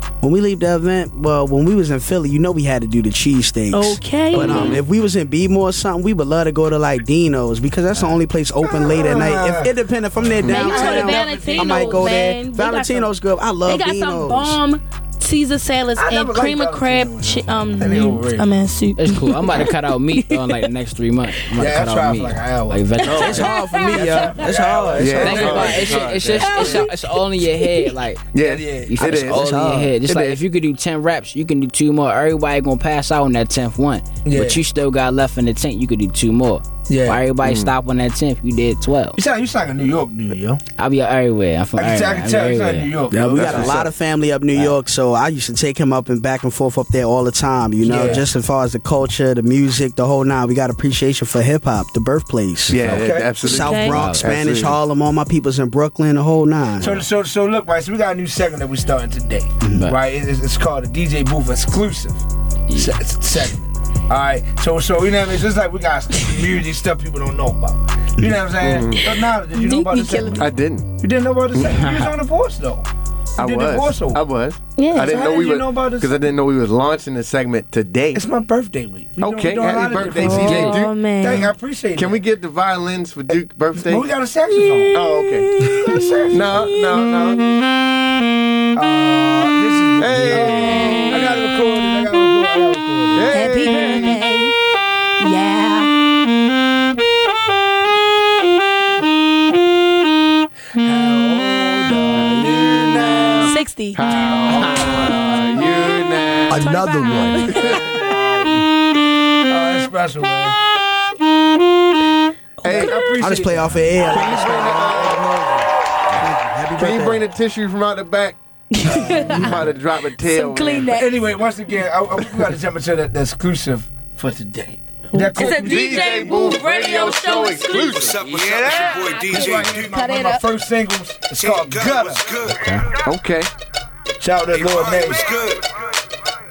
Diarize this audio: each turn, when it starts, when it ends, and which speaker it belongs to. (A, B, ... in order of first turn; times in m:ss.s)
0:00.2-0:14.6 A
0:03.7-0:04.7 B
0:04.4-0:04.8 C
0:08.6-0:12.2 D
0:10.4-0:13.1 B
0:13.6-0:20.7 B
0:16.0-0:18.5 D
0:19.0-0:23.5 E
0:21.6-0:26.9 D
0:23.0-0:24.5 B
0:23.1-0:25.6 A
0:25.0-0:26.8 C
0:25.1-0:28.3 E
0:26.4-0:26.9 B
0:27.6-0:27.9 B
0:28.3-0:29.5 C
0:28.4-0:29.1 D
0:28.9-0:39.2 E
0:29.0-0:29.9 A
0:30.1-0:30.4 C
0:34.2-0:34.6 D
0:36.9-0:37.2 D
0:37.4-0:37.7 C
0:39.1-0:40.6 D
0:40.8-0:43.0 E
0:41.8-0:43.9 D
0:43.1-0:57.0 A
0:43.3-0:43.8 C
0:47.8-0:48.3 D
0:52.7-0:54.8 C
0:52.9-0:53.4 D
0:53.5-0:54.0 B
0:53.8-0:54.5 E
0:56.8-1:02.2 D
1:02.7-1:12.9 D
1:08.6-1:09.0 C
1:09.5-1:10.4 B
1:10.4-1:10.9 C
1:11.5-1:11.8 C
1:13.4-1:14.2 D
1:13.4-1:18.2 C
1:14.8-1:15.2 B
1:15.0-1:16.2 D
1:18.2-1:22.2 D
1:19.2-1:20.9 C
1:20.2-1:21.5 B
1:22.0-1:24.1 C
1:23.8-1:25.0 D
1:24.9-1:25.5 C
1:25.6-1:26.0 B
1:25.7-1:26.6 D
1:26.3-1:27.4 C
1:28.8-1:33.3 D
1:30.0-1:31.2 C
1:30.3-1:31.4 B
1:33.1-1:34.2 C
1:33.3-1:34.6 B
1:35.2-1:35.9 B
1:40.8-1:43.6 D
1:42.2-1:43.1 C
1:43.4-1:44.0 B
1:44.0-1:46.7 C
1:44.1-1:46.0 D
1:46.5-1:47.5 A
1:46.6-1:47.8 B
1:47.5-1:47.9 C
1:47.7-1:48.5 D
1:49.5-1:50.6 D
1:52.6-1:53.1 C
1:52.6-1:55.7 D
1:53.2-1:55.2 A
1:54.0-1:55.3 C
1:56.1-1:57.2 A
1:56.8-2:00.9 C
1:58.7-1:59.6 B
1:58.8-1:59.4 D
2:00.2-2:01.1 B
2:00.9-2:06.4 D
2:05.1-2:08.1 B
2:05.4-2:09.2 C
2:08.1-2:09.8 F
2:08.7-2:12.4 D
2:09.0-2:10.4 B
2:11.4-2:12.7 F
2:12.5-2:12.9 E
2:13.0-2:13.5 C
2:14.2-2:15.3 D
2:14.6-2:15.6 F